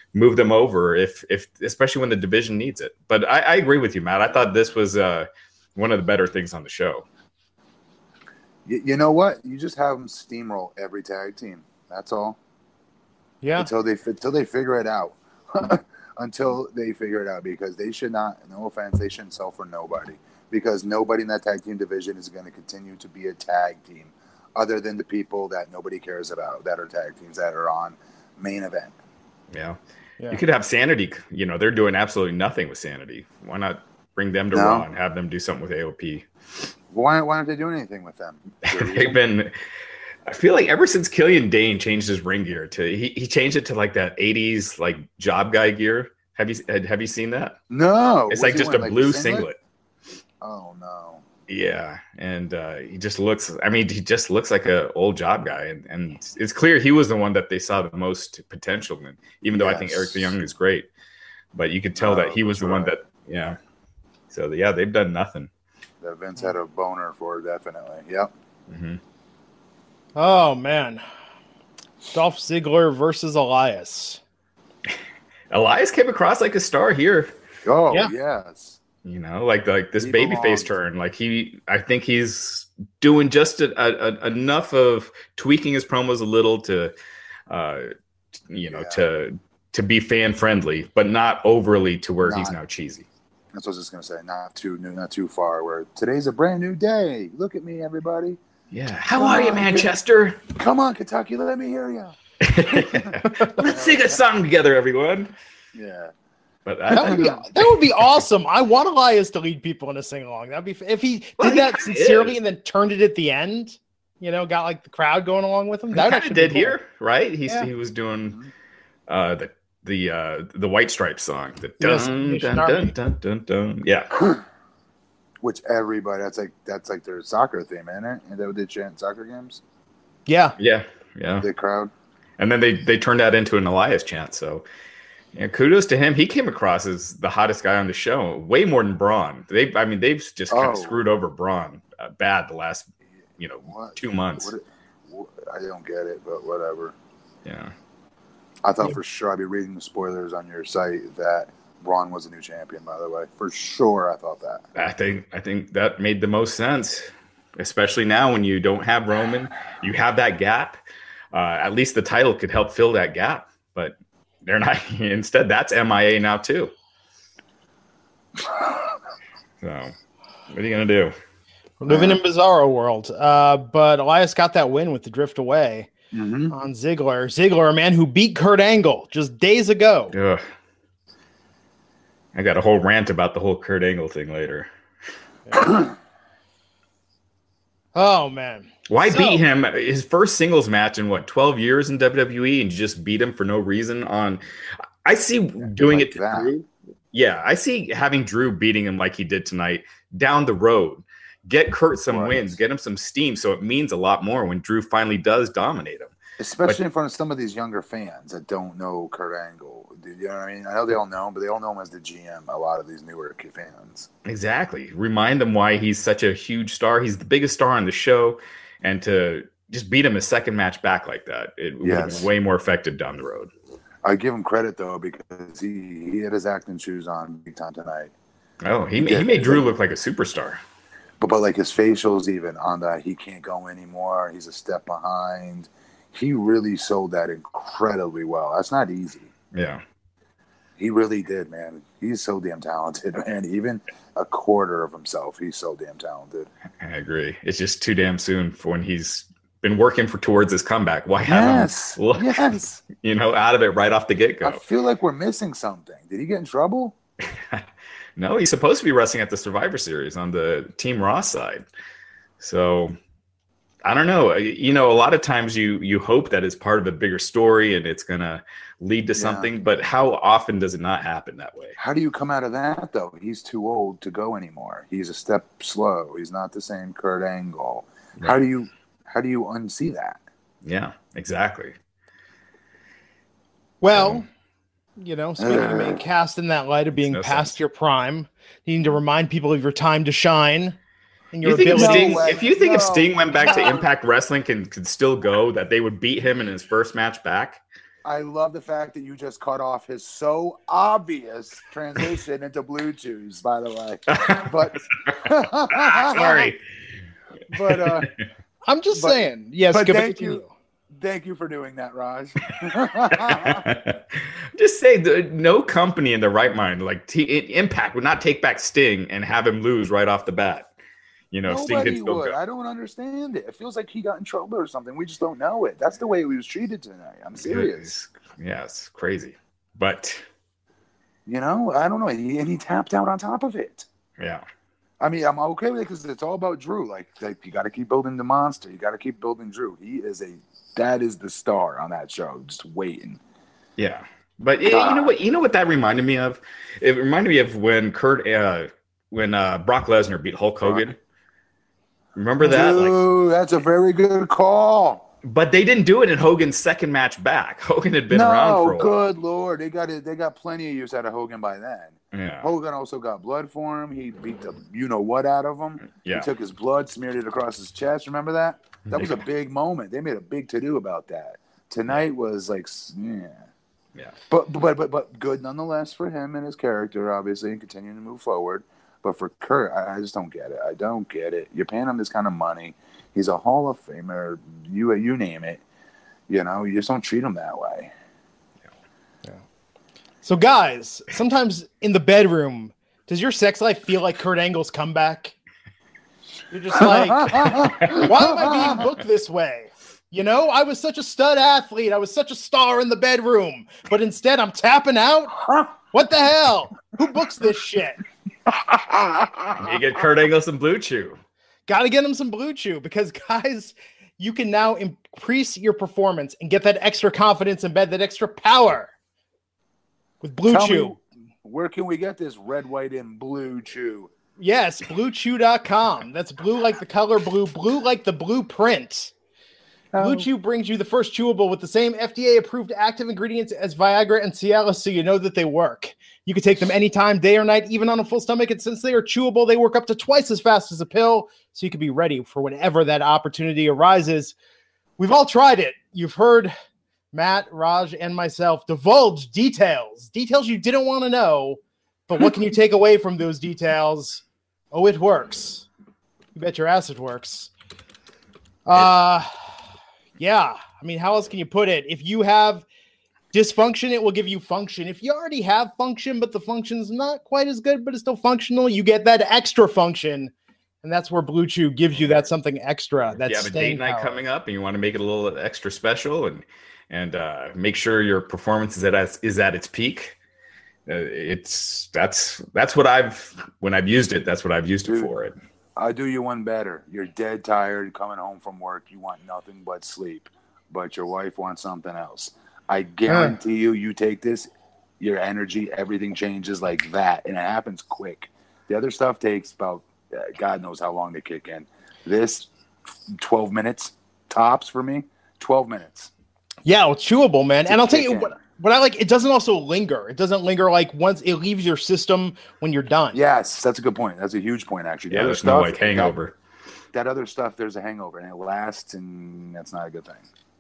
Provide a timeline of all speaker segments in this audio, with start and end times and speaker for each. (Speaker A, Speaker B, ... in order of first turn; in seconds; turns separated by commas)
Speaker A: 0.1-7.0, Speaker B: 8.7-12.4, Speaker C: 13.4-13.7, Speaker B: 13.6-28.9, Speaker A: 29.5-29.8, Speaker A: 30.3-36.7, Speaker B: 34.5-34.9, Speaker B: 36.9-39.2, Speaker A: 38.7-39.5, Speaker A: 40.3-47.6, Speaker B: 47.7-49.5, Speaker A: 48.3-49.6, Speaker B: 50.4-51.2, Speaker A: 51.5-60.9, Speaker B: 59.5-60.3, Speaker A: 61.5-63.6, Speaker B: 62.0-62.9, Speaker A: 64.3-65.5, Speaker B: 66.0-68.3, Speaker A: 68.7-69.0, Speaker C: 70.2-71.0, Speaker C: 72.1-74.2, Speaker A: 75.5-77.3, Speaker B: 77.7-78.8, Speaker A: 79.0-86.9, Speaker B: 80.0-80.7, Speaker A: 87.5-87.9, Speaker A: 88.5-93.1, Speaker B: 88.7-89.0, Speaker B: 92.2-92.6, Speaker B: 93.5-98.4, Speaker A: 98.7-100.5, Speaker B: 99.2-99.9, Speaker B: 100.5-104.2, Speaker A: 102.4-105.3, Speaker B: 105.7-106.1, Speaker A: 106.7-107.5, Speaker B: 106.9-107.4, Speaker C: 106.9-116.8, Speaker A: 111.4-112.4, Speaker A: 115.9-118.4, Speaker A: 119.1-124.2, Speaker C: 121.8-122.9, Speaker B: 125.4-129.6, Speaker C: 130.3-130.6, Speaker A: 130.6-131.5, Speaker B: 131.4-131.9, Speaker A: 132.4-134.7, Speaker A: 135.3-142.9, Speaker B: 140.5-141.0, Speaker A: 143.4-144.5, Speaker B: 143.7-147.0, Speaker A: 147.4-147.7, Speaker B: 148.6-154.7, Speaker A: 154.8-160.8, Speaker A: 161.3-166.7, Speaker A: 169.6-169.9, Speaker A: 170.5-171.2, Speaker C: 171.8-175.9, Speaker B: 171.9-172.2, Speaker B: 176.1-176.5, Speaker C: 176.5-180.2, Speaker A: 180.1-180.4, Speaker A: 182.3-184.7, Speaker C: 185.5-185.7, Speaker C: 188.0-189.4, Speaker A: 188.9-194.4, Speaker A: 195.1-196.6, Speaker B: 195.6-196.6, Speaker A: 197.1-206.1, Speaker B: 202.1-202.6, Speaker B: 206.4-214.1, Speaker A: 214.2-223.5, Speaker B: 221.8-222.3, Speaker B: 224.0-228.1, Speaker A: 228.6-230.6, Speaker B: 229.0-229.7, Speaker B: 231.2-239.3, Speaker A: 239.5-239.8, Speaker B: 240.8-246.5, Speaker A: 246.8-254.6, Speaker B: 251.3-252.8, Speaker B: 254.4-257.0, Speaker A: 257.3-257.7, Speaker A: 258.2-261.7, Speaker A: 262.4-263.0, Speaker A: 263.8-271.8, Speaker B: 269.2-269.5, Speaker B: 271.8-280.2, Speaker A: 280.6-281.8, Speaker C: 283.8-284.3, Speaker A: 283.9-284.2, Speaker C: 285.0-290.8, Speaker B: 285.4-286.0, Speaker A: 287.0-287.6, Speaker C: 291.3-292.4, Speaker A: 291.4-297.6, Speaker B: 291.7-293.9, Speaker B: 298.1-306.5, Speaker A: 304.1-305.2, Speaker A: 305.7-306.6, Speaker B: 307.5-308.1, Speaker C: 307.7-308.1, Speaker A: 307.8-308.1, Speaker C: 308.7-310.5, Speaker B: 308.9-309.2, Speaker B: 309.7-313.7, Speaker A: 313.1-320.7, Speaker A: 321.3-322.4, Speaker B: 321.5-327.9, Speaker A: 327.4-330.2, Speaker B: 331.3-333.9, Speaker A: 334.2-334.4, Speaker B: 335.0-343.2, Speaker A: 343.8-351.0, Speaker B: 344.6-345.1, Speaker A: 352.2-353.0, Speaker B: 352.4-355.1, Speaker A: 355.2-358.9, Speaker B: 358.1-373.5, Speaker A: 362.1-362.5, Speaker A: 365.8-366.3, Speaker A: 368.9-369.2, Speaker B: 374.3-385.6, Speaker B: 386.3-387.9, Speaker C: 390.2-395.3, Speaker C: 396.5-408.0, Speaker B: 396.8-398.8, Speaker A: 397.5-398.1, Speaker B: 408.5-409.7, Speaker A: 409.6-411.2, Speaker C: 411.7-418.9, Speaker C: 420.2-420.9, Speaker B: 420.5-424.1, Speaker C: 424.4-429.1, Speaker B: 429.9-430.3, Speaker C: 430.0-444.4, Speaker C: 445.0-446.5, Speaker C: 447.1-455.7, Speaker C: 456.4-457.5, Speaker C: 458.7-459.5, Speaker C: 460.2-462.6, Speaker C: 463.3-470.3, Speaker C: 470.8-474.2, Speaker A: 473.2-480.2, Speaker A: 480.9-485.4, Speaker B: 484.9-485.1, Speaker B: 485.8-494.5, Speaker C: 493.1-493.4, Speaker B: 495.0-502.5, Speaker B: 503.1-506.1, Speaker C: 506.6-513.2, Speaker B: 507.7-508.4, Speaker B: 513.1-516.2, Speaker A: 515.1-516.4, Speaker B: 516.9-520.3